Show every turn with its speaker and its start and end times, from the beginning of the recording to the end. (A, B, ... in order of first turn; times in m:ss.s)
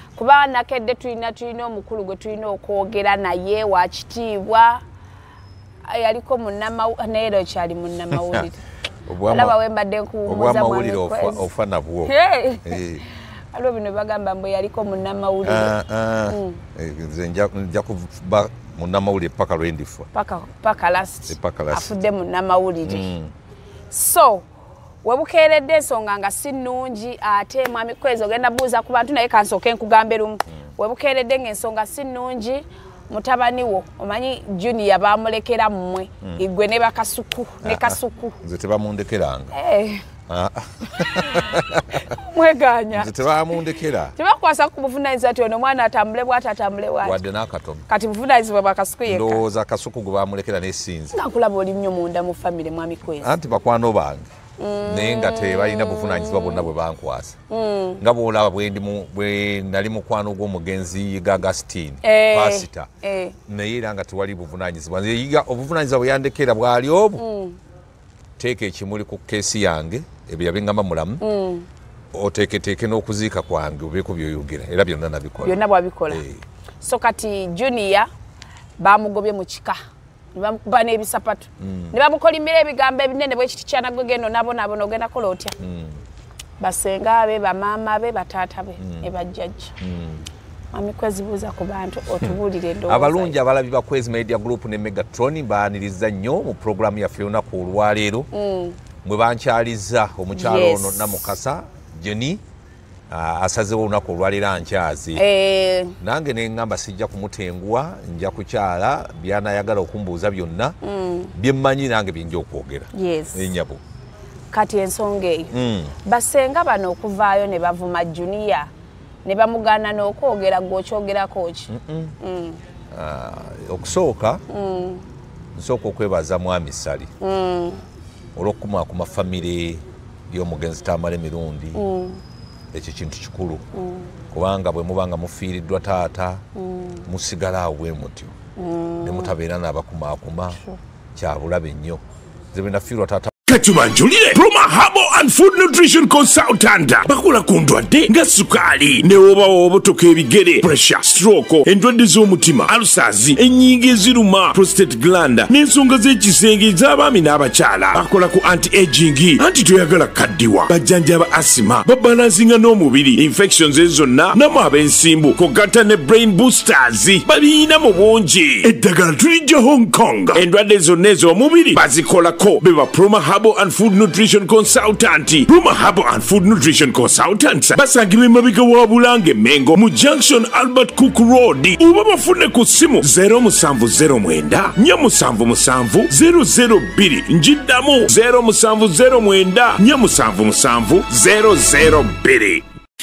0:00.2-0:04.8 A
0:05.8-0:08.6 A
0:09.1-0:09.6 B
0:09.3-0:11.5 A
0:10.3-0:12.1 B
0:12.0-0:12.8 A
0:12.6-0:13.0 B
0:13.5-0:15.7 A
0:15.4-0:20.1 B
0:16.3-0:16.6 A
0:20.1-0:23.1 A
0:21.3-0:21.9 B
0:22.8-0:23.3 B
0:23.9-0:24.5 A
0:25.0-0:38.4 A
0:37.6-0:39.6 B
0:39.5-0:40.0 A
0:40.3-0:42.0 B
0:41.0-0:43.3 A
0:42.9-0:44.1 B
0:44.2-0:47.2 A
0:47.0-0:47.9 B
0:47.9-0:49.4 A
0:49.1-0:51.2 B
0:51.1-0:53.3 A
0:53.2-0:54.3 B
0:54.6-0:56.7 A
0:54.8-0:57.4 B
0:57.5-0:58.0 A
0:58.0-1:02.9 B
1:02.0-1:03.4 A
1:03.5-1:07.2 B
1:07.2-1:07.6 A
1:08.4-1:11.2 B
1:11.2-1:11.7 A
1:12.1-1:16.4 B
1:15.4-1:16.2 A
1:16.8-1:18.1 A
1:18.8-1:19.8 A
1:20.3-1:25.6 A
1:21.6-1:22.0 B
1:25.6-1:26.0 B
1:26.6-1:29.8 A
1:28.8-1:29.1 B
1:29.8-1:30.2 B
1:30.7-1:33.4 A
1:32.2-1:38.3 B
1:38.3-1:38.8 A
1:39.0-1:42.4 B
1:40.3-1:41.3 A
1:43.1-1:45.2 B
1:45.2-1:46.0 A
1:46.0-1:50.8 B
1:50.8-1:51.3 A
1:51.3-1:53.8 B
1:52.9-1:53.5 A
1:54.5-1:58.7 A
1:55.5-1:55.9 B
1:59.2-2:02.6 A
2:01.7-2:02.2 B
2:02.9-2:04.4 B
2:04.5-2:05.1 A
2:05.6-2:07.1 B
2:07.2-2:07.8 A
2:08.4-2:11.8 B
2:11.8-2:12.2 A
2:12.7-2:13.6 B
2:13.7-2:14.1 A
2:14.3-2:16.4 B
2:16.6-2:17.0 A
2:17.1-2:18.3 B
2:18.6-2:19.4 A
2:19.0-2:20.6 B
2:21.2-2:22.0 B
2:22.5-2:23.3 B
2:23.5-2:47.3 C
2:24.3-2:31.5 B
2:32.4-2:40.8 B
2:41.9-2:42.4 B
2:43.9-2:45.5 B
2:47.1-2:48.6 B
2:48.7-3:12.6 C
2:51.8-2:52.5 B
2:55.5-2:55.9 B